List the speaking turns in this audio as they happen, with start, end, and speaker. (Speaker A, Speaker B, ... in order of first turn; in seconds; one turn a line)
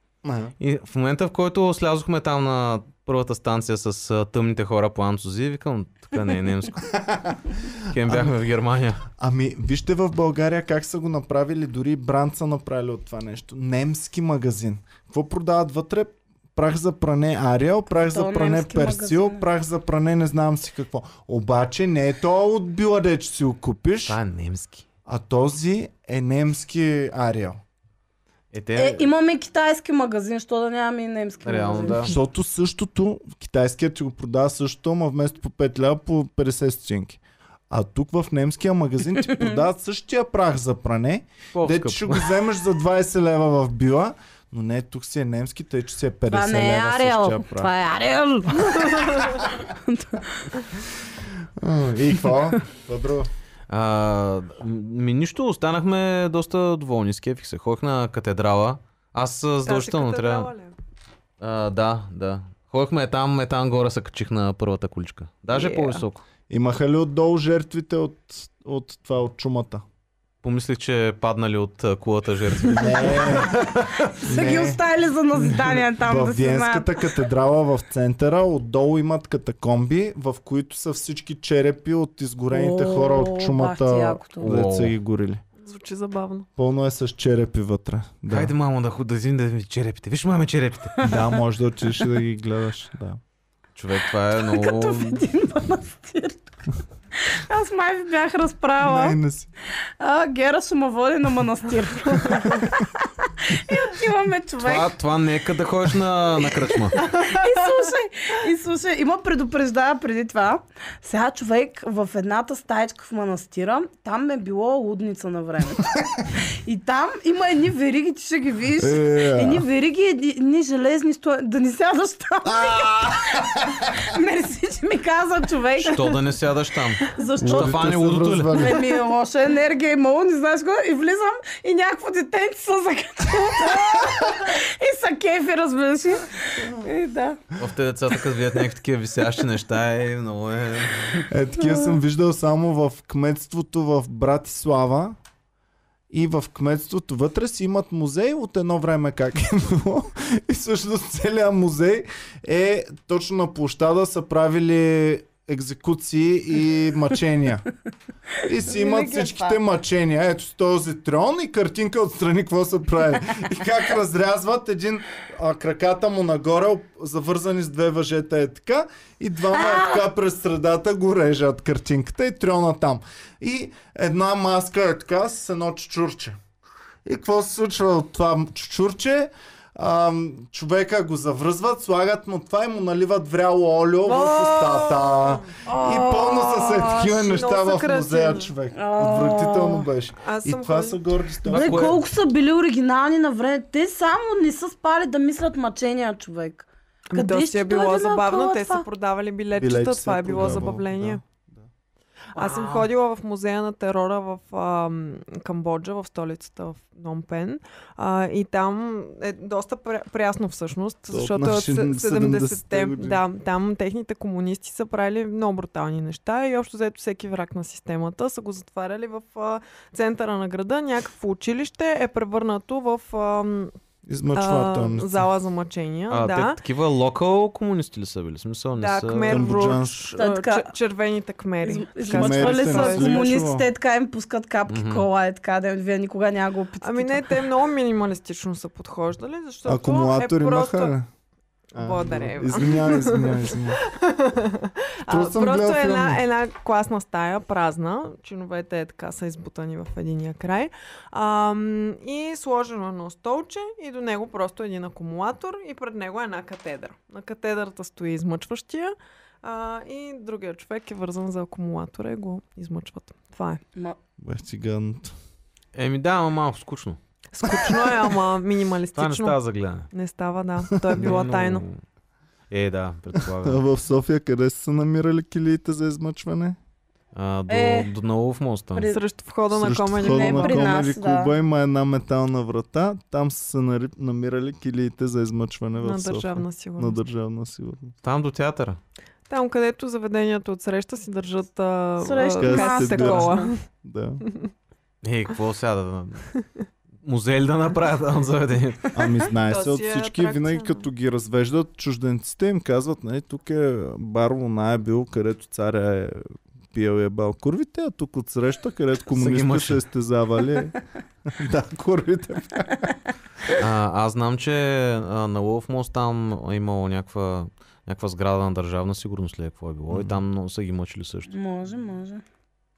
Speaker A: 0.2-0.5
Speaker B: 0.6-6.9
Speaker A: 6.9-8.3
Speaker B: 7.9-9.0
Speaker A: 9.1-24.2
Speaker C: 18.1-19.4
Speaker B: 24.1-24.9
Speaker A: 25.1-27.6
Speaker B: 28.5-29.1
Speaker C: 28.7-32.1
Speaker B: 31.4-32.1
Speaker A: 32.0-47.7
Speaker C: 39.3-39.5
Speaker B: 41.5-42.3
Speaker C: 46.3-50.4
Speaker A: 51.6-53.3
Speaker B: 53.7-60.5
Speaker D: 59.6-60.8
Speaker B: 61.4-66.2
Speaker D: 65.5-66.0
Speaker A: 66.5-69.8
Speaker B: 70.4-73.6
Speaker A: 72.7-73.7
Speaker A: 74.2-74.8
Speaker C: 74.2-76.9
Speaker A: 75.5-85.4
Speaker C: 82.5-84.5
Speaker B: 84.4-84.9
Speaker D: 85.6-86.5
Speaker A: 86.6-88.5
Speaker B: 88.3-91.1
Speaker C: 91.0-91.3
Speaker A: 91.0-93.2
Speaker B: 93.8-95.2
Speaker C: 94.4-96.5
Speaker C: 97.2-99.2
Speaker A: 98.8-99.5
Speaker C: 100.0-104.9
Speaker B: 104.6-107.0
Speaker C: 106.9-126.1
Speaker A: 118.8-119.6
Speaker A: 122.5-123.7
Speaker B: 125.8-128.7
Speaker C: 127.1-127.8
Speaker A: 127.4-128.8
Speaker C: 128.5-137.4
Speaker B: 137.6-141.3
Speaker A: 141.3-145.2
Speaker A: 146.1-157.6
Speaker A: 158.4-176.4
Speaker C: 158.7-159.6
Speaker A: 177.0-192.0
Speaker D: 184.0-188.5
Speaker C: 185.6-186.8
Speaker C: 188.7-189.9
Speaker D: 190.2-191.0
Speaker B: 191.4-192.0
Speaker C: 191.4-198.8
Speaker D: 197.1-201.2
Speaker A: 199.5-201.7
Speaker D: 202.3-223.7
Speaker B: 202.3-202.9
Speaker A: 211.1-213.2
Speaker A: 224.1-225.3
Speaker D: 224.3-226.6
Speaker B: 226.1-229.6
Speaker D: 228.8-233.2
Speaker A: 229.2-230.1
Speaker C: 230.2-230.7
Speaker C: 231.6-237.4
Speaker A: 232.1-233.7
Speaker B: 234.7-235.0
Speaker D: 236.8-240.9
Speaker A: 239.6-241.1
Speaker D: 241.7-263.6
Speaker A: 241.7-243.8
Speaker A: 245.1-246.2
Speaker A: 264.2-265.1
Speaker B: 265.7-267.0
Speaker D: 267.3-269.4
Speaker B: 268.9-269.9
Speaker D: 269.9-271.6
Speaker B: 270.9-271.8
Speaker B: 272.5-273.6
Speaker A: 273.2-276.6
Speaker B: 277.1-278.9
Speaker C: 277.5-277.9
Speaker C: 278.7-279.0
Speaker D: 278.9-280.8
Speaker A: 279.5-287.9
Speaker C: 280.0-281.3
Speaker D: 285.8-286.9
Speaker B: 288.0-288.8
Speaker D: 289.3-293.6
Speaker C: 292.0-293.4
Speaker A: 292.4-294.2
Speaker B: 295.0-296.2
Speaker B: 297.0-298.9
Speaker A: 298.9-312.9
Speaker D: 299.4-300.8
Speaker B: 309.1-309.8
Speaker B: 313.5-321.3
Speaker A: 319.9-320.2
Speaker C: 321.3-322.2